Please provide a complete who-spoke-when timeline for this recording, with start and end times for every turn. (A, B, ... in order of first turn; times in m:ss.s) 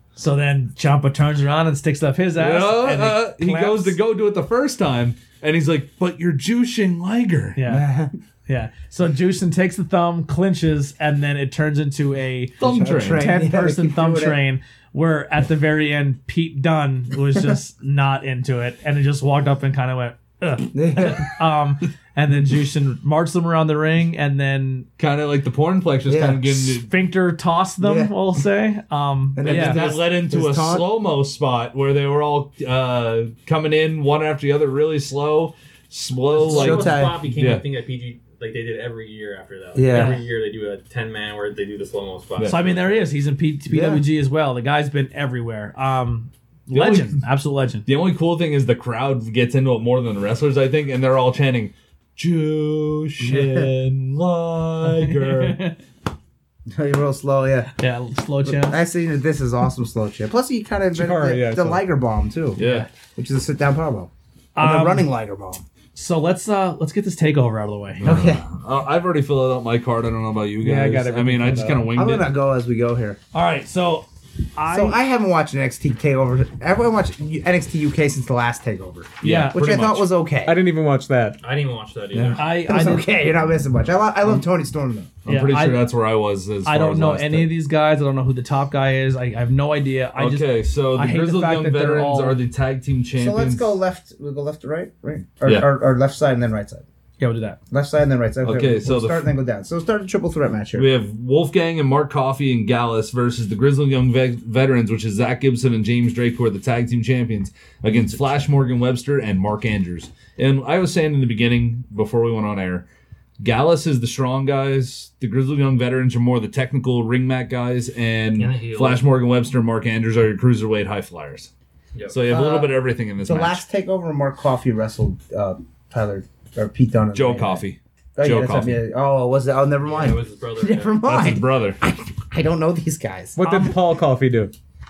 0:00.2-0:04.0 A
0:02.4-0:07.6 B
0:07.5-0:07.8 A
0:07.6-0:08.1 C
0:08.5-0:12.6 A
0:12.6-0:13.3 B
0:12.6-0:14.4 C
0:13.1-0:24.9 A
0:20.7-0:21.4 C
0:25.0-0:26.9 B
0:26.1-0:26.8 C
0:26.8-0:29.8 A
0:27.8-0:28.1 C
0:29.3-0:30.8 C
0:29.4-0:37.6 B
0:36.3-0:43.0 D
0:36.4-0:37.2 C
0:39.7-0:40.2 C
0:39.9-0:40.2 A
0:42.4-0:47.8 A
0:43.7-0:44.0 C
0:46.7-0:47.2 B
0:47.8-0:55.7 B
0:53.2-0:53.7 C
0:54.9-0:55.8 A
0:56.7-0:57.7 C
0:57.8-0:58.8 A
0:58.4-1:05.6 C
1:00.9-1:01.8 E
1:02.6-1:02.9 B
1:02.6-1:02.9 A
1:04.5-1:05.1 A
1:05.9-1:08.0 A
1:08.0-1:12.3 B
1:08.0-1:08.4 C
1:10.6-1:11.9 E
1:11.9-1:13.2 C
1:13.3-1:15.0 A
1:14.7-1:20.6 C
1:19.2-1:20.1 B
1:19.2-1:19.6 A
1:20.4-1:21.4 E
1:21.4-1:22.7 D
1:22.1-1:25.1 C
1:22.4-1:23.1 A
1:25.2-1:27.5 B
1:25.2-1:25.9 A
1:26.6-1:32.4 A
1:30.1-1:33.8 B
1:33.2-1:36.8 C
1:35.4-1:35.7 B
1:37.2-1:37.6 A
1:37.7-1:40.9 C
1:38.4-1:39.2 B
1:40.7-1:52.8 B
1:53.4-2:01.5 B
1:58.4-1:59.0 D
2:01.9-2:02.2 D
2:02.1-2:03.6 B
2:02.3-2:07.6 C
2:07.1-2:08.8 B
2:08.2-2:13.6 C
2:09.8-2:11.0 D
2:11.0-2:11.8 B
2:13.4-2:14.5 E